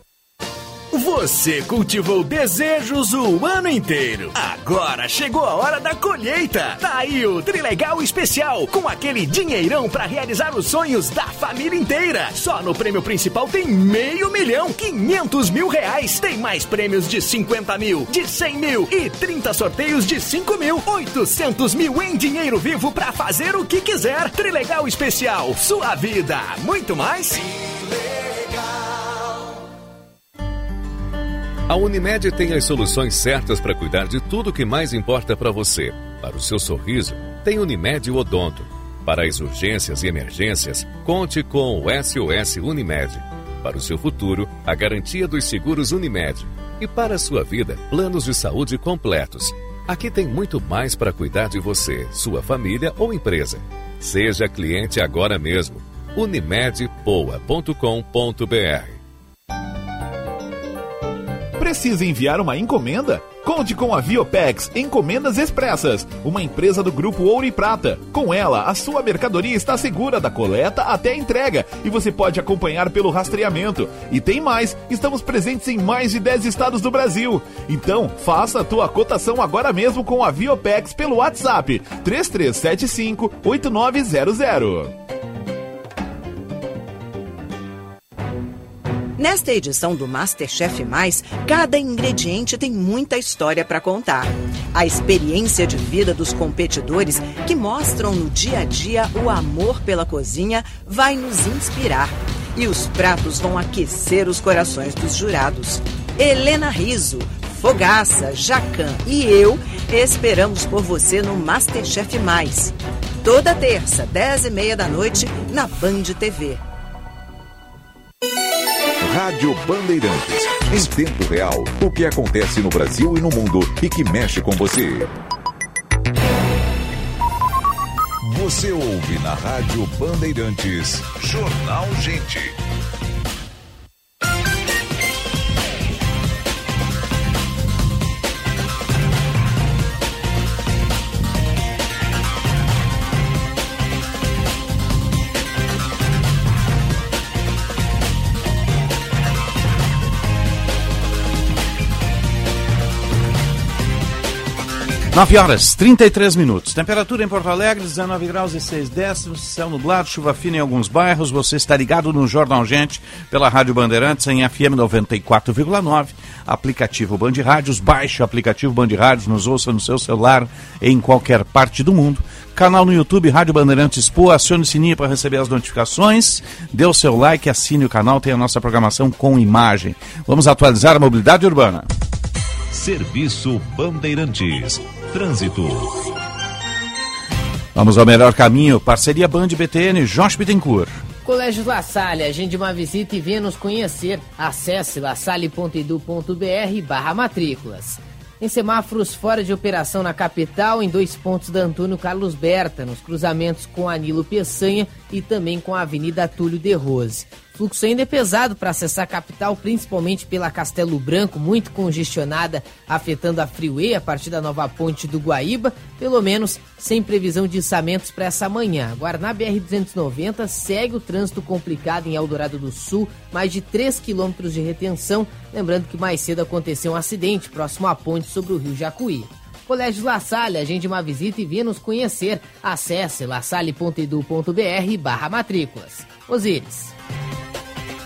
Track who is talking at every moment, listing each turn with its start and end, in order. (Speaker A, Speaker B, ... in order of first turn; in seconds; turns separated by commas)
Speaker A: 0.9-27.6, Speaker B: 31.7-59.0, Speaker C: 61.6-84.9, Speaker D: 89.2-116.6, Speaker E: 119.0-125.1, Speaker E: 128.2-132.6, Speaker F: 155.1-181.9, Speaker E: 182.7-186.0, Speaker F: 187.7-191.0, Speaker G: 191.2-236.9